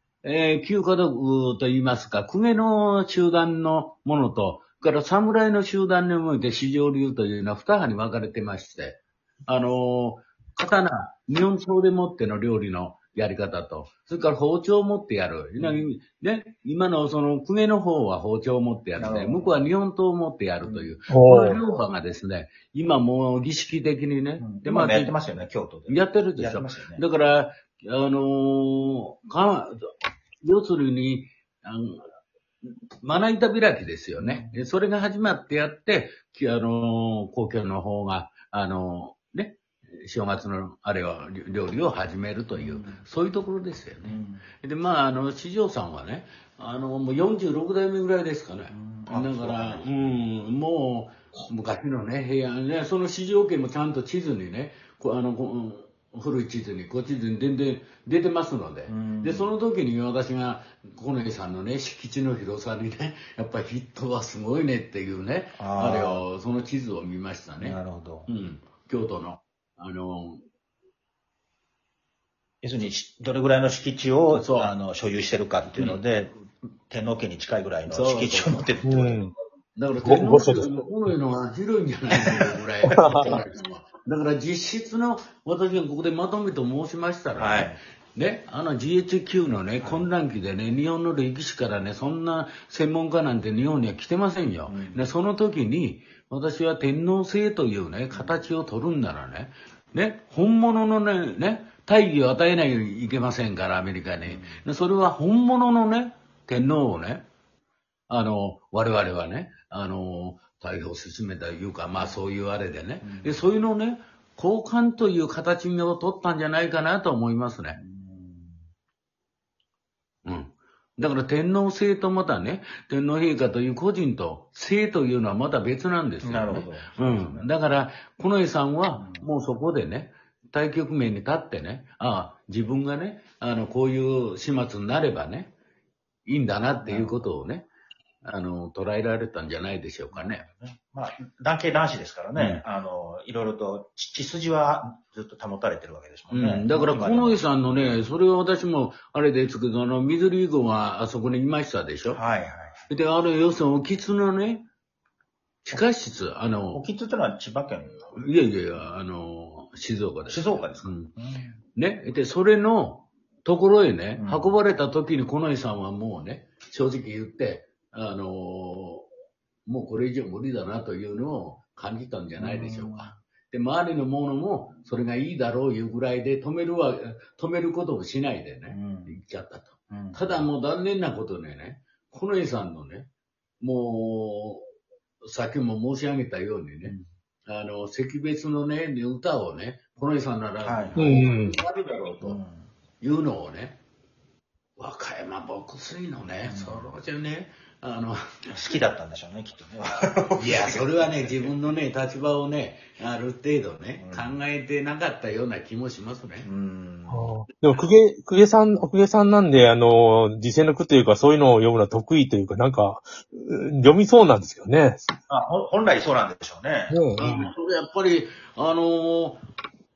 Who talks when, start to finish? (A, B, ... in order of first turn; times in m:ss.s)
0:00.2-0:32.1 A
0:15.6-0:15.9 B
0:19.0-0:19.6 B
0:20.6-0:20.9 B
0:21.1-0:21.6 C
0:24.4-0:27.0 B
0:32.9-1:10.4 A
0:34.2-0:34.6 B
0:42.5-0:43.0 B
0:44.0-0:44.4 B
0:48.7-0:50.2 B
0:58.9-0:59.5 B
1:05.6-1:06.2 B
1:07.6-1:08.3 B
1:12.6-1:19.2 B
1:14.3-1:14.7 A
1:17.9-1:19.0 A
1:18.9-1:19.3 C
1:19.8-1:47.3 A
1:20.0-1:20.7 C
1:22.2-1:22.5 B
1:22.9-1:23.4 C
1:27.4-1:27.8 B
1:29.8-1:30.1 B
1:34.7-1:35.0 B
1:38.1-1:38.4 B
1:44.2-1:44.6 B
1:48.1-1:57.8 A
1:51.9-1:52.2 B
1:53.0-1:53.4 B
1:57.8-1:58.6 B
2:00.2-2:15.5 A
2:06.2-2:07.5 B
2:08.9-2:09.3 B
2:16.3-2:17.7 A
2:16.8-2:17.3 B
2:18.2-2:20.4 A
2:20.1-2:28.1 B
2:22.4-2:22.6 A
2:26.3-2:32.2 A
2:32.1-2:32.8 B
2:32.9-2:34.7 A
2:35.6-2:36.8 A
2:36.7-2:38.0 B
2:38.1-2:41.1 A
2:40.3-2:41.6 B
2:41.8-2:49.1 A
2:44.2-2:44.6 B
2:49.7-3:03.1 A
2:52.4-2:53.1 B
2:58.7-2:59.2 B
2:59.9-3:00.5 B
3:03.6-3:04.7 A
3:05.2-3:12.4 A
3:10.6-3:11.2 B
3:11.0-3:11.6 C
3:12.2-3:12.7 B
3:13.0-3:13.8 A
3:14.8-3:18.5 A
3:16.5-3:16.9 B
3:18.5-3:21.5 B
3:20.4-3:26.5 A
3:24.0-3:24.4 B
3:26.4-3:27.3 B
3:27.1-3:35.1 C
3:35.3-3:37.0 B
3:36.9-3:37.5 C
3:37.2-3:39.4 A